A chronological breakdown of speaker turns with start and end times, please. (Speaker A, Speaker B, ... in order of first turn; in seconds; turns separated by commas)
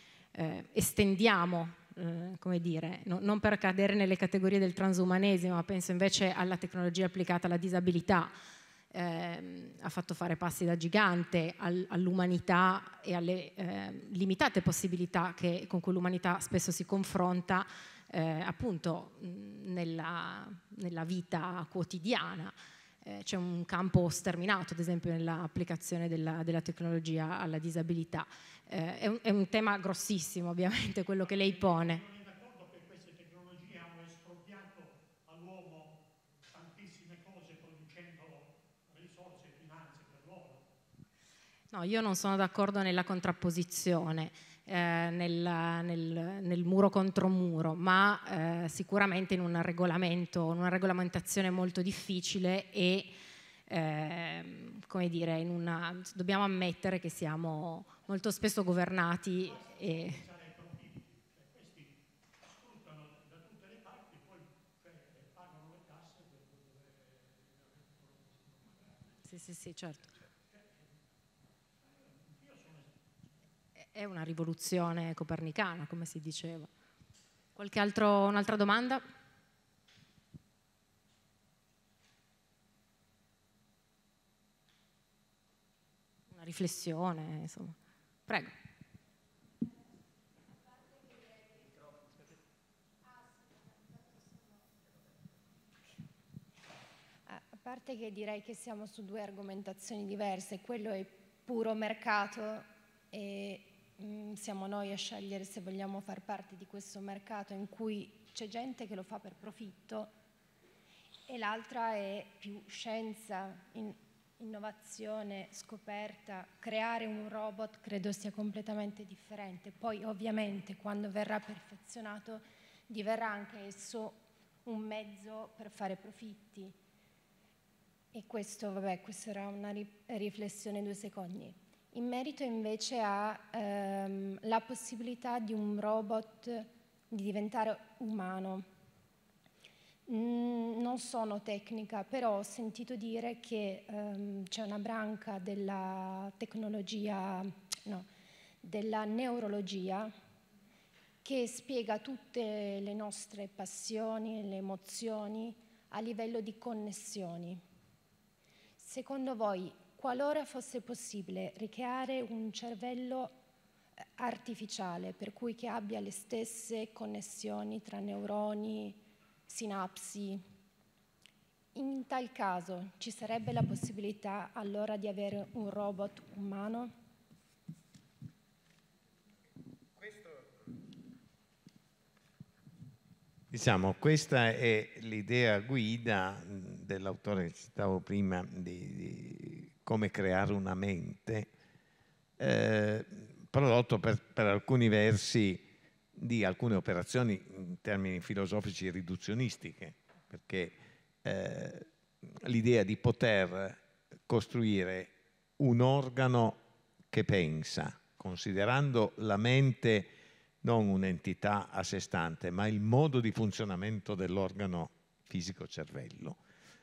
Speaker A: 0.3-8.3, Speaker A: 8.9-32.0, Speaker B: 31.3-40.6, Speaker A: 41.7-53.1, Speaker A: 53.7-60.2, Speaker B: 59.5-69.1, Speaker A: 69.3-70.1, Speaker B: 72.1-73.0, Speaker A: 73.9-76.7, Speaker A: 77.6-79.0, Speaker A: 86.3-87.8, Speaker A: 88.3-88.5, Speaker C: 97.3-110.1, Speaker C: 111.3-126.8, Speaker C: 128.1-138.7, Speaker C: 140.1-148.1, Speaker C: 148.6-150.1, Speaker C: 151.2-157.6, Speaker C: 158.8-163.3, Speaker C: 164.2-170.4, Speaker C: 171.8-176.9, Speaker D: 183.5-191.5, Speaker D: 192.4-195.6, Speaker D: 196.2-216.4